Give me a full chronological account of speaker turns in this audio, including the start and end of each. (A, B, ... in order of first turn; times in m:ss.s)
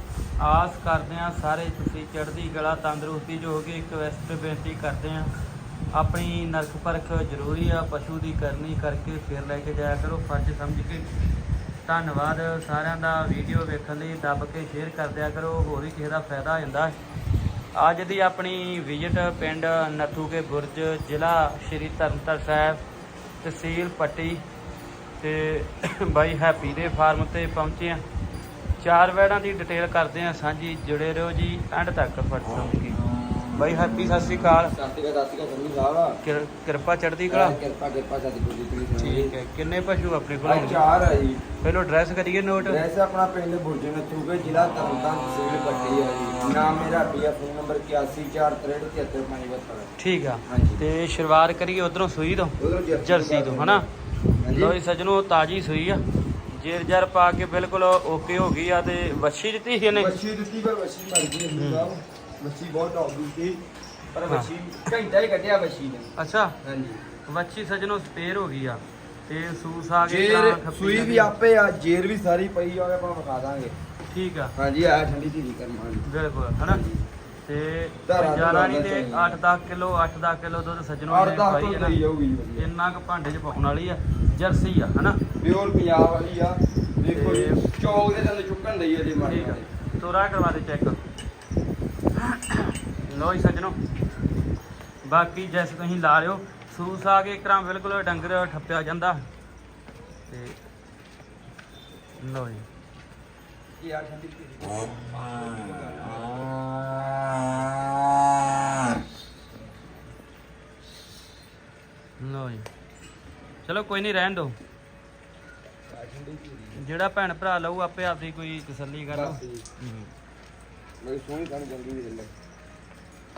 0:00.4-0:05.3 A
0:05.9-0:11.1 A
0:11.8-0:17.0 A
0:17.8-0:22.8 A
0:23.4-0:24.4 A
0:25.2-0:28.0 A
0:28.8-0:33.0 A
0:33.5-0:34.7 A
0:34.6-0:36.2 B
0:36.2-0:37.6 A
0:37.3-0:39.3 B
0:39.0-0:40.8 A
0:40.4-0:41.4 B
0:41.6-0:42.8 A
0:42.6-0:49.9 B
0:50.0-0:53.9 A
0:50.5-0:50.8 B
0:52.6-0:53.9 B
0:54.4-0:54.8 B
0:54.5-1:00.2 A
0:59.9-1:03.6 B
1:01.6-1:01.9 A
1:04.1-1:07.0 B
1:06.2-1:06.6 A
1:07.3-1:11.3 A
1:10.0-1:13.8 B
1:14.1-1:14.5 A
1:14.6-1:16.1 B
1:16.0-1:16.8 A
1:16.6-1:17.0 B
1:17.4-1:22.0 A
1:18.1-1:19.4 B
1:21.1-1:22.7 B
1:22.6-1:25.2 A
1:25.4-1:29.7 B
1:27.2-1:27.6 A
1:29.2-1:31.0 A
1:32.2-1:33.8 A
1:35.0-1:39.2 A
1:40.3-1:40.6 A
1:42.2-1:42.6 A
1:43.8-1:46.5 B
1:52.2-1:52.7 A
1:53.7-1:54.6 A
1:55.9-1:56.8 B
1:56.8-2:00.1 A
1:59.1-1:59.6 B
2:01.0-2:02.3 B